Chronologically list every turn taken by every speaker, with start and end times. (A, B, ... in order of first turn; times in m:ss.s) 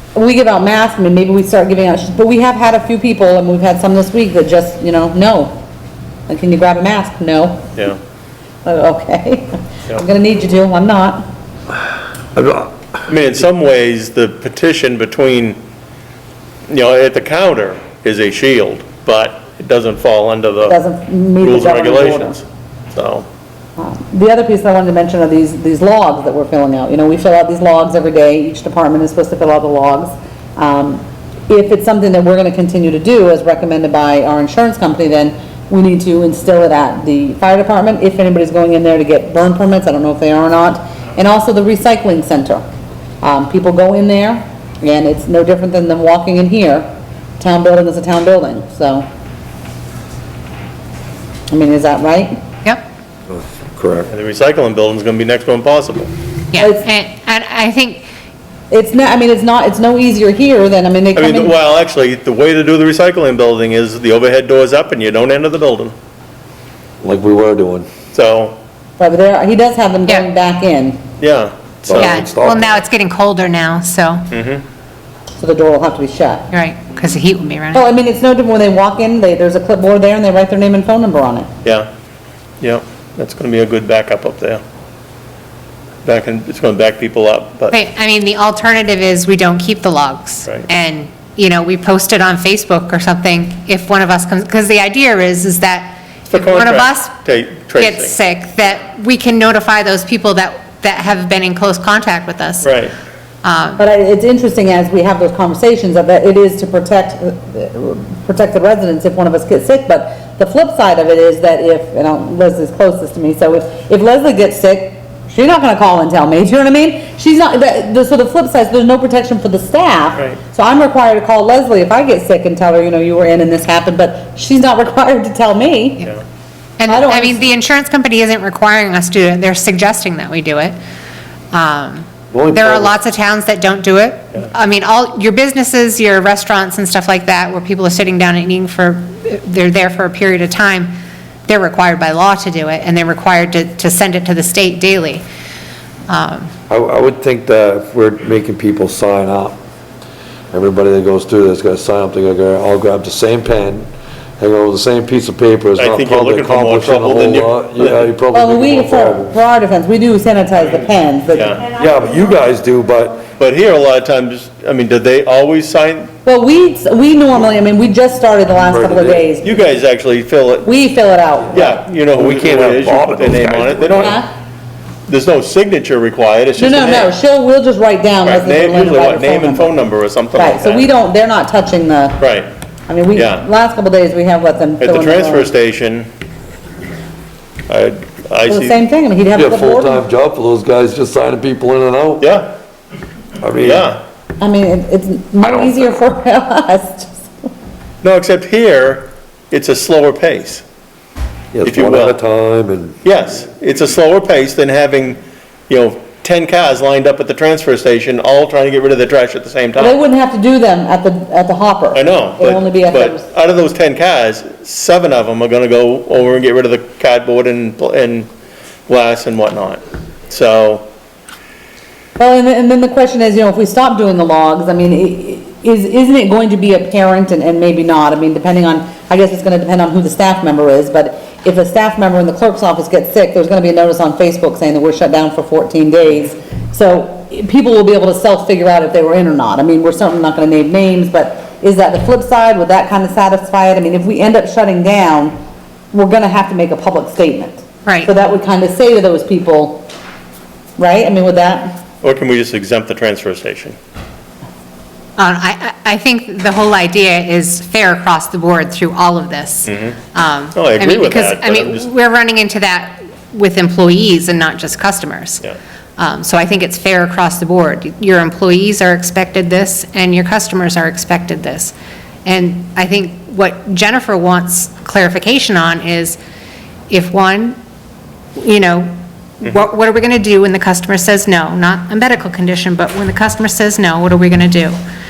0:00.2-0:05.5 A
0:06.3-0:07.7 A
0:08.6-0:11.3 A
0:12.4-0:12.9 B
0:13.1-0:15.6 C
0:16.7-0:20.8 C
0:20.7-0:22.4 A
0:21.4-0:23.3 C
0:23.8-0:42.6 A
0:43.2-0:46.9 A
0:47.4-0:49.1 A
0:51.5-0:52.4 A
0:53.3-0:54.1 B
0:54.1-0:56.1 C
0:56.5-0:58.1 D
0:56.6-0:56.9 A
0:58.7-1:01.6 A
1:01.1-1:05.9 C
1:07.0-1:07.9 B
1:08.1-1:08.6 C
1:09.0-1:11.0 A
1:11.2-1:12.3 C
1:11.9-1:12.7 B
1:12.0-1:14.3 D
1:14.3-1:14.6 C
1:15.4-1:16.5 A
1:16.5-1:17.8 D
1:17.7-1:21.5 A
1:22.6-1:24.6 C
1:26.0-1:27.8 C
1:27.7-1:37.2 D
1:36.3-1:38.2 C
1:37.8-1:42.8 D
1:42.6-1:42.9 C
1:43.4-1:43.8 D
1:43.8-2:06.1 A
2:06.8-2:10.8 D
2:06.9-2:07.4 A
2:11.5-2:25.2 D
2:12.3-2:12.9 B
2:26.1-2:26.5 D
2:26.7-2:29.6 B
2:30.5-2:33.9 B
2:34.4-2:39.3 B
2:35.8-2:38.1 C
2:38.3-2:41.6 A
2:40.6-2:41.7 C
2:41.8-2:43.2 B
2:43.4-2:46.1 C
2:46.2-2:49.5 A
2:48.6-2:49.3 B
2:49.4-2:50.7 C
2:50.6-2:51.8 A
2:51.5-2:54.2 C
2:52.1-2:54.2 B
2:53.9-2:54.3 A
2:55.1-2:57.1 C
2:56.6-2:59.7 A
2:58.2-3:00.9 C
3:00.4-3:02.2 A
3:02.2-3:02.5 C
3:02.9-3:05.5 A
3:03.1-3:03.4 C
3:04.8-3:06.1 C
3:07.7-3:08.8 C
3:08.5-3:10.0 A
3:09.4-3:12.2 B
3:12.2-3:12.5 C
3:13.4-3:13.9 B
3:13.6-3:14.0 C
3:14.4-3:17.5 A
3:15.4-3:15.8 B
3:18.0-3:20.6 C
3:21.5-3:23.0 B
3:21.6-3:22.2 C
3:23.0-3:30.0 C
3:29.8-3:33.3 A
3:31.9-3:38.3 C
3:38.9-3:40.8 C
3:42.2-4:05.4 A
4:05.9-4:09.9 A
4:07.8-4:08.1 D
4:10.8-4:11.8 A
4:12.0-4:13.8 C
4:15.2-4:25.5 D
4:19.7-4:20.0 C
4:20.5-4:21.9 C
4:26.0-4:36.2 D
4:36.9-4:37.6 D
4:38.4-4:44.8 D